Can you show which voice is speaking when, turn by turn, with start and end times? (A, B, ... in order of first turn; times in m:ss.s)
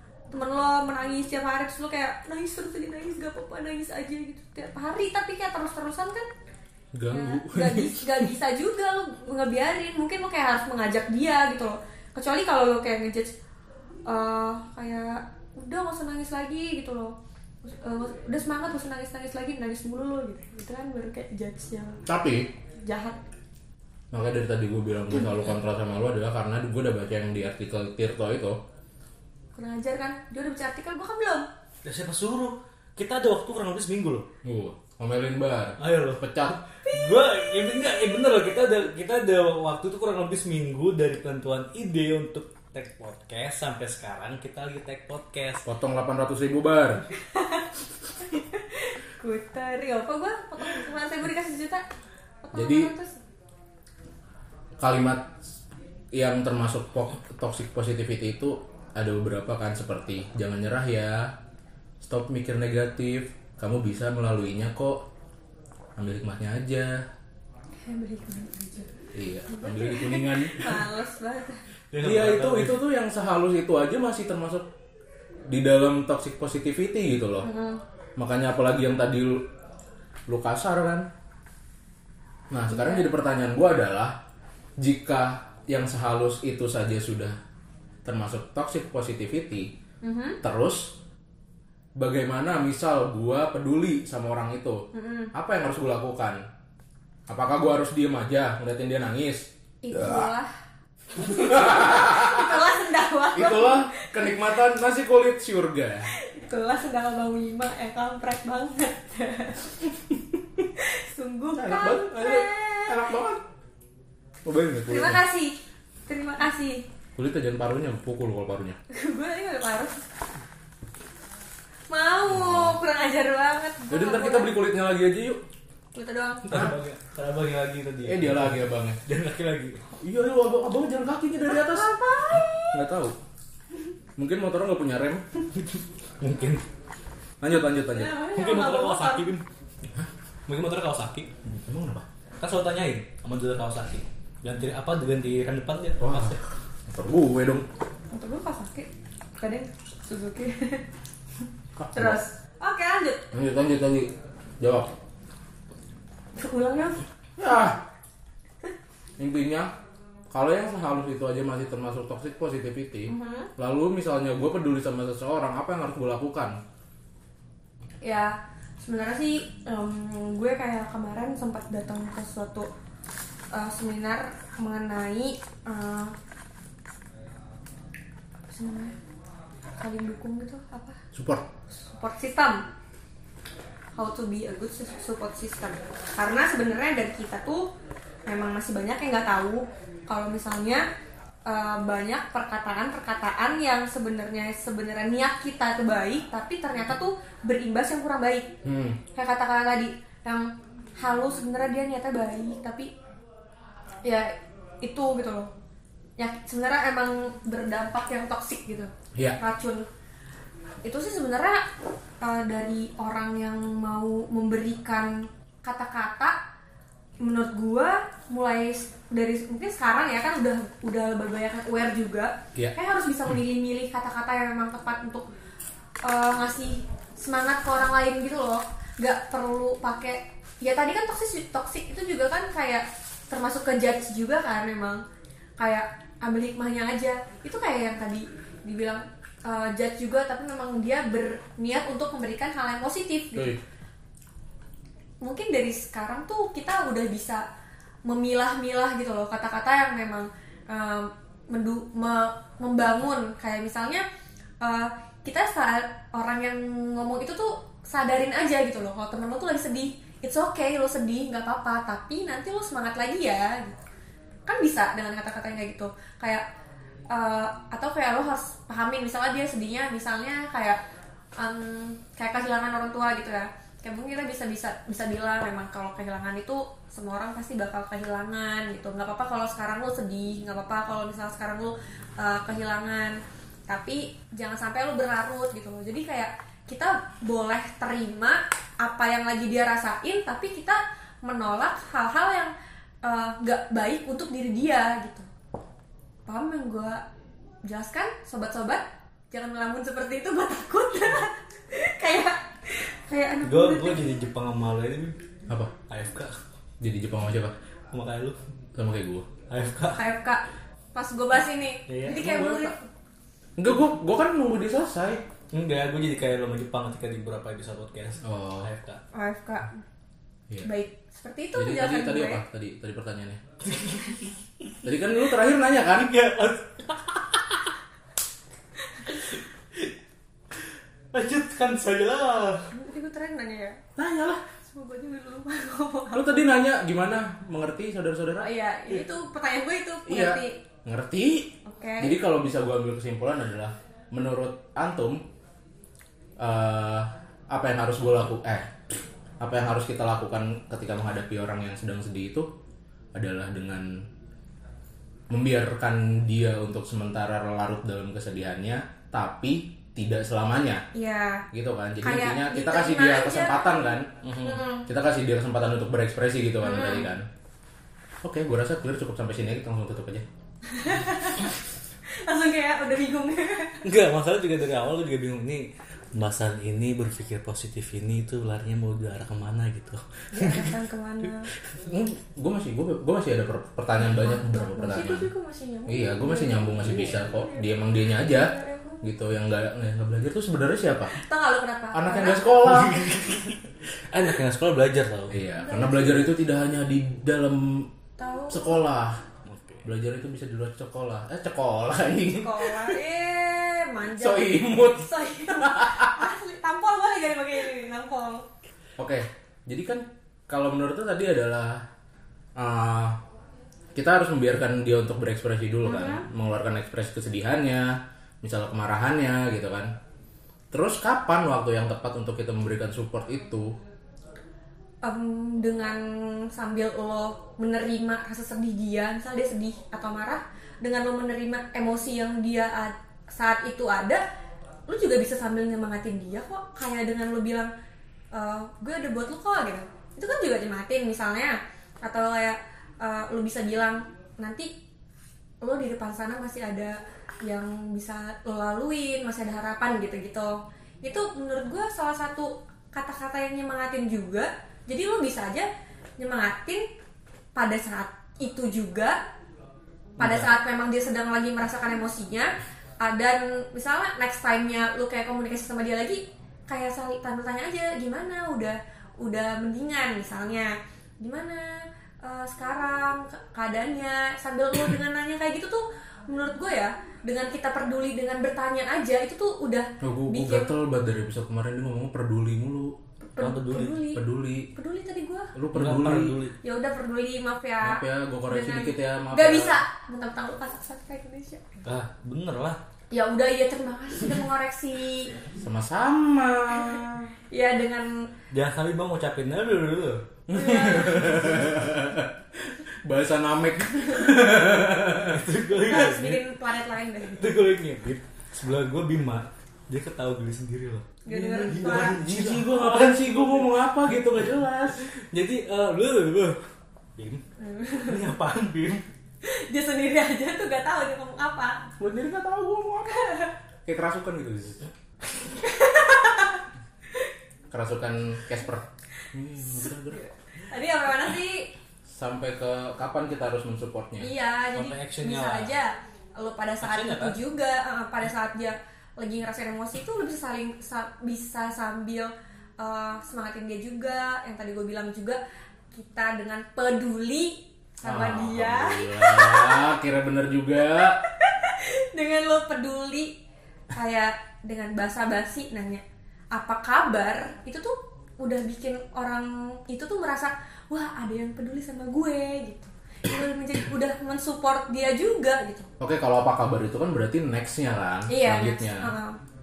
0:00.3-0:06.3 A
0:06.9-0:08.3 B
0:07.1-0:13.3 A
0:14.1-0:22.0 A
0:22.1-0:22.5 B
0:22.8-0:23.2 A
0:24.1-0:28.6 B
0:29.6-0:31.5 A
0:31.8-0:34.3 C
0:34.4-0:36.6 B
0:35.8-0:45.7 C
0:36.9-0:37.3 A
0:45.6-0:47.1 B
0:47.2-0:47.7 A
0:48.2-0:51.8 A
0:52.4-0:53.2 A
0:52.5-0:52.9 B
0:54.8-0:55.4 B
0:56.1-1:01.4 B
1:02.0-1:05.0 B
1:06.0-1:07.1 B
1:07.8-1:08.9 A
1:09.1-1:10.8 B
1:09.5-1:11.6 A
1:11.9-1:12.8 C
1:12.0-1:14.7 B
1:15.5-1:17.5 B
1:17.4-1:17.8 A
1:18.2-1:19.4 B
1:20.3-1:21.1 B
1:22.5-1:24.2 B
1:22.7-1:23.1 A
1:24.8-1:27.4 B
1:28.0-1:29.7 B
1:30.0-1:30.4 A
1:30.4-1:31.0 B
1:32.0-1:36.4 B
1:34.9-1:35.3 A
1:37.3-1:40.3 B
1:39.8-1:40.5 A
1:41.2-1:44.4 A
1:41.2-1:42.7 B
1:43.3-1:46.1 B
1:46.1-1:49.9 A
1:50.8-1:53.0 A
1:51.6-1:53.4 B
1:54.4-1:55.2 B
1:54.9-1:55.6 A
1:56.1-1:56.9 A
1:57.2-1:58.8 B
1:58.9-2:00.0 A
2:01.9-2:04.5 A
2:02.3-2:02.8 B
2:03.9-2:05.4 B
2:05.9-2:06.5 A
2:06.5-2:09.8 C
2:08.0-2:09.0 B
2:10.0-2:11.9 B
2:11.5-2:12.8 A
2:12.7-2:13.2 B
2:14.2-2:15.5 B
2:16.2-2:16.6 C
2:17.4-2:18.2 B
2:17.5-2:19.3 A
2:18.3-2:19.4 C
2:20.5-2:21.3 C
2:21.4-2:22.1 B
2:22.4-2:26.4 C
2:26.0-2:27.7 B
2:28.1-2:30.8 A
2:31.8-2:32.2 B
2:31.9-2:33.3 A
2:33.3-2:34.9 B
2:36.4-2:37.0 A
2:37.4-2:37.8 B
2:39.2-2:39.7 B
2:40.3-2:46.6 B
2:43.1-2:43.5 A
2:48.0-2:52.7 A
2:53.5-2:56.1 A
2:58.5-2:59.0 A
2:59.8-3:01.0 A
3:01.1-3:01.5 B
3:01.7-3:02.7 A
3:04.0-3:07.7 A
3:08.3-3:10.9 A
3:11.5-3:18.5 A
3:18.6-3:19.0 B
3:19.1-3:22.9 A
3:24.0-3:25.5 A
3:26.2-3:29.9 A
3:30.8-3:31.6 A
3:32.2-3:36.4 A
3:37.2-3:45.3 A
3:46.0-3:55.0 A
3:55.6-4:03.6 A
4:05.2-4:07.5 A
4:08.1-4:14.0 A
4:14.6-4:23.8 A
4:24.5-4:26.4 A
4:27.1-4:30.8 A
4:31.4-4:52.5 A
4:53.0-4:55.3 A
4:56.3-4:57.0 A
4:57.6-5:04.2 A
5:03.4-5:05.2 C
5:05.5-5:05.7 B
5:05.9-5:06.4 C
5:06.8-5:07.6 B
5:07.9-5:08.4 C
5:08.8-5:09.3 B
5:09.5-5:10.0 C
5:09.9-5:10.4 A
5:11.0-5:12.9 A
5:11.9-5:12.3 C
5:12.1-5:12.8 B
5:13.6-5:15.2 B
5:15.5-5:19.0 C
5:18.2-5:18.7 B
5:19.1-5:19.8 A
5:20.6-5:22.4 A
5:21.6-5:23.4 B
5:23.6-5:24.7 C
5:24.8-5:26.1 B
5:26.0-5:27.7 C
5:29.0-5:29.9 C
5:31.1-5:32.7 C
5:32.7-5:33.8 A
5:34.0-5:34.4 B
5:34.6-5:36.4 A
5:36.1-5:38.5 B
5:38.4-5:40.6 A
5:40.1-5:45.2 B
5:41.6-5:42.2 A
5:46.4-5:52.5 B
5:53.1-5:54.1 B
5:55.3-6:00.9 B
6:00.9-6:01.5 A
6:01.5-6:07.3 B
6:02.0-6:04.9 A
6:06.6-6:07.1 A
6:08.2-6:10.3 B
6:10.7-6:11.6 A
6:12.1-6:13.9 A
6:13.8-6:20.8 C
6:20.3-6:21.5 A
6:21.8-6:25.3 B
6:24.0-6:29.0 A
6:25.9-6:31.1 B
6:31.1-6:32.8 A
6:31.9-6:33.1 B
6:32.6-6:35.4 C
6:35.3-6:37.9 B
6:35.6-6:36.3 A
6:38.2-6:38.8 A
6:38.5-6:39.2 B
6:39.4-6:39.9 C
6:39.8-6:43.0 B
6:42.3-6:48.5 A
6:44.1-6:46.3 B
6:49.0-6:51.8 B
6:52.6-6:53.2 B
6:54.0-6:59.9 B
6:55.9-6:56.2 A
7:00.7-7:03.8 B
7:05.0-7:14.2 A
7:14.9-7:17.7 A
7:18.3-7:24.7 A
7:25.6-7:36.9 A
7:37.6-7:39.2 A
7:40.2-8:00.7 A
8:00.0-8:03.0 B
8:03.3-8:05.5 A
8:03.4-8:04.0 C
8:04.1-8:04.7 B
8:05.6-8:06.4 B
8:05.7-8:06.6 C
8:06.6-8:11.8 A
8:07.8-8:09.8 B
8:11.8-8:12.8 C
8:13.1-8:15.3 A
8:15.6-8:17.2 B
8:16.7-8:18.3 A
8:18.5-8:20.2 C
8:20.5-8:25.4 B
8:20.5-8:21.6 A
8:25.1-8:26.4 C
8:25.9-8:27.5 A
8:27.3-8:33.7 C
8:31.2-8:32.2 A
8:31.6-8:35.1 B
8:35.1-8:36.6 C
8:37.2-8:37.4 C
8:37.6-8:38.2 A
8:38.0-8:39.1 C
8:39.4-8:41.9 A
8:42.0-8:44.8 B
8:43.1-8:43.5 A
8:45.4-8:47.3 A
8:47.7-8:50.2 B
8:49.6-8:51.7 A
8:52.1-8:54.3 B
8:54.2-9:05.4 A
8:54.7-8:55.7 C
8:56.8-8:57.4 C
9:05.9-9:09.9 A
9:08.0-9:11.2 B
9:10.8-9:13.3 A
9:13.9-9:16.0 A
9:16.5-9:25.9 A
9:26.0-9:29.1 B
9:28.3-9:29.4 A